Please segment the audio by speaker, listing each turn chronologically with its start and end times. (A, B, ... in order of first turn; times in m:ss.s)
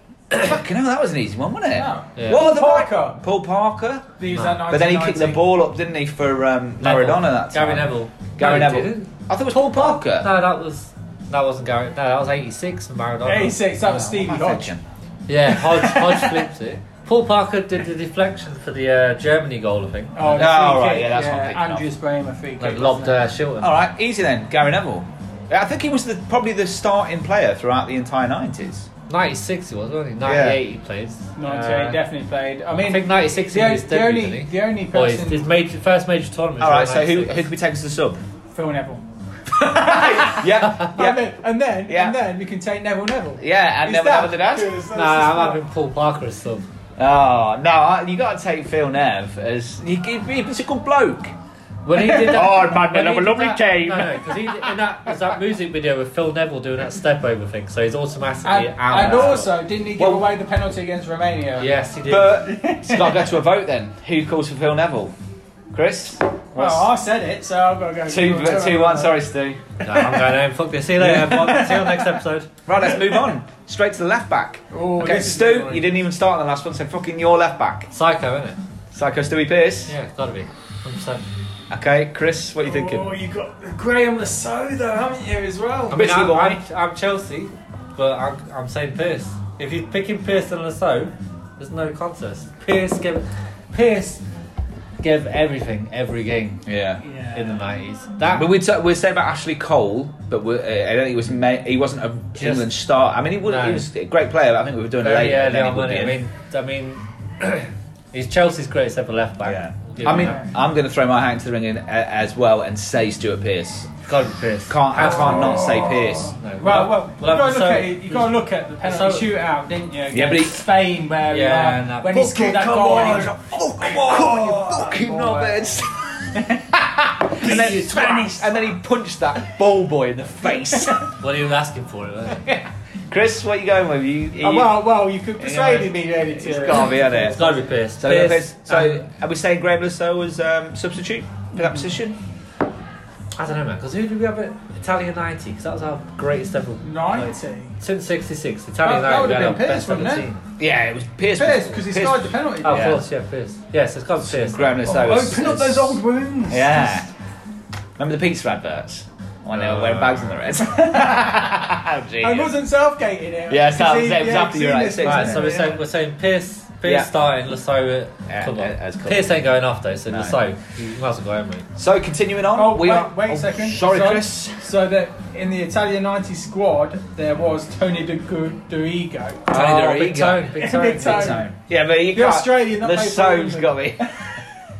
0:00.3-0:00.6 A
0:00.4-0:10.3 B
0:01.7-0:03.2 C
0:02.2-0:02.4 A
0:04.2-0:05.4 C
0:04.3-0:04.6 A
0:06.8-0:09.1 A
0:09.8-0:13.6 A
0:13.2-0:14.7 C
0:13.8-0:14.8 B
0:15.3-0:20.5 A
0:15.5-0:16.5 C
0:20.2-0:23.2 C
0:20.3-0:21.8 B
0:22.6-0:23.7 A
0:23.6-0:28.9 B
0:29.1-0:32.0 A
0:30.2-0:30.6 B
0:31.4-0:35.5 C
0:32.8-0:37.4 A
0:36.6-0:38.2 B
0:38.5-0:45.6 C
0:39.6-0:41.2 B
0:41.9-0:42.2 B
0:43.4-0:44.7 B
0:44.9-0:46.6 A
0:47.0-0:51.3 B
0:51.8-0:59.5 A
0:52.0-0:52.6 C
0:52.0-0:54.7 B
0:58.4-1:01.7 C
0:59.0-0:59.4 B
1:00.0-1:00.3 B
1:01.6-1:02.4 A
1:02.1-1:05.1 B
1:02.4-1:03.3 C
1:05.7-1:06.9 B
1:06.5-1:09.2 C
1:08.1-1:09.6 B
1:09.8-1:12.5 A
1:11.0-1:11.4 B
1:11.1-1:12.2 C
1:12.6-1:17.9 B
1:12.9-1:13.2 C
1:14.7-1:15.9 C
1:17.9-1:18.6 A
1:18.9-1:19.9 B
1:19.9-1:21.2 A
1:21.7-1:23.1 B
1:22.6-1:26.0 C
1:25.9-1:26.6 B
1:25.9-1:34.2 A
1:35.0-1:36.6 A
1:36.6-1:37.0 B
1:37.0-1:37.6 C
1:37.3-1:38.5 A
1:38.3-1:46.2 B
1:42.4-1:42.7 A
1:43.4-1:43.8 A
1:45.0-1:50.4 A
1:49.4-1:53.9 B
1:50.1-1:50.4 C
1:54.0-1:59.3 A
1:54.7-1:56.3 B
1:55.0-2:06.6 C
2:00.1-2:00.6 B
2:01.3-2:02.5 A
2:02.2-2:05.9 B
2:06.6-2:11.1 B
2:07.3-2:08.7 C
2:11.2-2:12.4 A
2:12.3-2:14.8 B
2:14.4-2:17.5 C
2:15.4-2:17.4 B
2:17.1-2:19.0 A
2:18.0-2:22.2 B
2:21.6-2:21.8 C
2:23.4-2:30.4 A
2:26.8-2:27.7 C
2:28.8-2:30.2 C
2:30.6-2:33.0 B
2:31.4-2:33.0 C
2:32.6-2:34.8 A
2:34.2-2:37.1 B
2:34.8-2:37.0 C
2:38.0-2:42.5 B
2:39.5-2:40.4 A
2:42.2-2:45.8 C
2:43.5-2:45.5 B
2:45.0-2:51.7 A
2:46.8-2:47.1 B
2:48.3-2:49.3 B
2:50.1-2:50.4 B
2:51.8-2:54.7 B
2:52.5-2:59.5 C
2:59.5-3:04.1 B
2:59.5-3:01.4 A
3:00.6-3:01.5 C
3:02.1-3:03.9 C